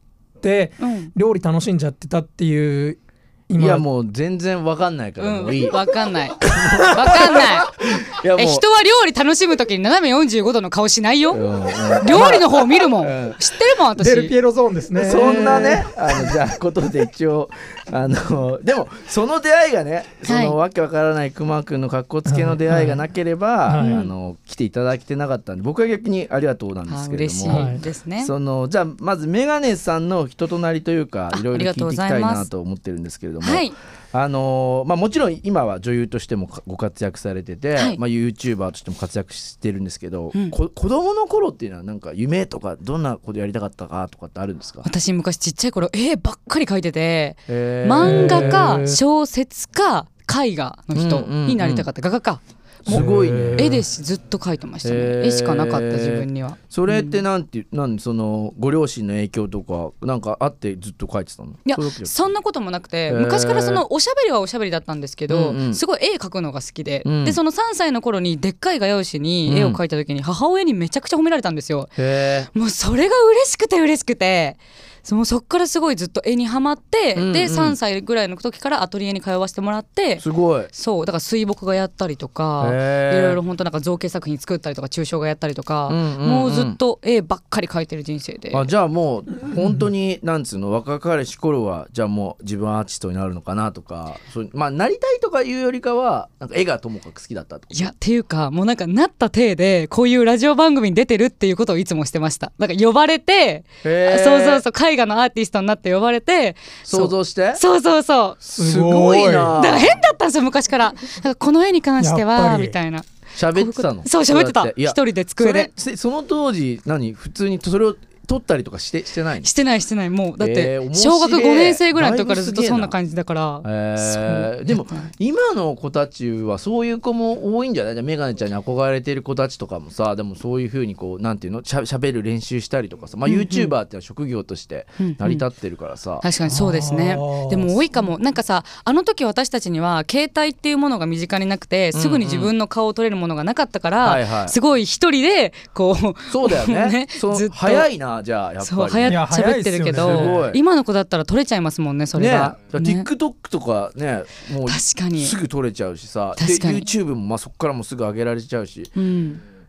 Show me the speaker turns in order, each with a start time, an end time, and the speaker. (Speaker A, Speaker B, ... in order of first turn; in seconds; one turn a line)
Speaker A: 0.4-3.9
Speaker B: 0.8-1.1
Speaker C: 3.6-5.8
Speaker B: 5.2-7.7
Speaker C: 6.4-8.7
Speaker B: 8.3-11.4
Speaker C: 11.3-13.4
Speaker B: 12.0-14.3
Speaker A: 14.0-16.3
Speaker C: 15.0-44.9
Speaker B: 15.2-15.6
Speaker B: 20.3-20.6
Speaker A: 22.3-23.0
Speaker A: 23.7-24.1
Speaker B: 23.8-24.1
Speaker B: 26.9-28.3
Speaker A: 27.5-27.8
Speaker B: 31.3-32.5
Speaker B: 33.4-33.8
Speaker B: 44.8-57.2
Speaker C: 47.5-49.0
Speaker A: 48.0-49.0
Speaker C: 51.0-51.9
Speaker C: 52.9-53.8
Speaker A: 52.9-53.8
Speaker C: 54.8-62.1
Speaker B: 61.7-72.0
Speaker C: 63.1-63.8
Speaker C: 65.3-65.8
Speaker C: 67.0-67.4
Speaker C: 69.5-69.8
Speaker C: 72.0-72.5
Speaker B: 72.5-88.7
Speaker C: 77.2-77.8
Speaker C: 80.2-80.7
Speaker C: 82.6-83.4
Speaker C: 85.9-86.8
Speaker C: 88.5-97.9
Speaker B: 97.7-108.4
Speaker C: 103.8-104.7
Speaker C: 106.8-107.6
Speaker A: 108.4-109.6
Speaker C: 108.5-110.0
Speaker B: 109.5-115.7
Speaker A: 112.0-112.8
Speaker C: 113.3-119.5
Speaker B: 119.4-125.1
Speaker C: 120.4-123.0
Speaker C: 123.6-136.3
Speaker B: 133.3-133.7
Speaker B: 135.0-135.4
Speaker B: 136.2-147.9
Speaker A: 136.5-138.1
Speaker C: 141.9-142.5
Speaker C: 144.0-144.6
Speaker C: 146.3-149.2
Speaker B: 148.6-153.1
Speaker A: 149.1-150.4
Speaker C: 149.9-150.6
Speaker C: 152.2-158.9
Speaker B: 154.7-155.3
Speaker B: 156.4-156.9
Speaker B: 158.9-159.4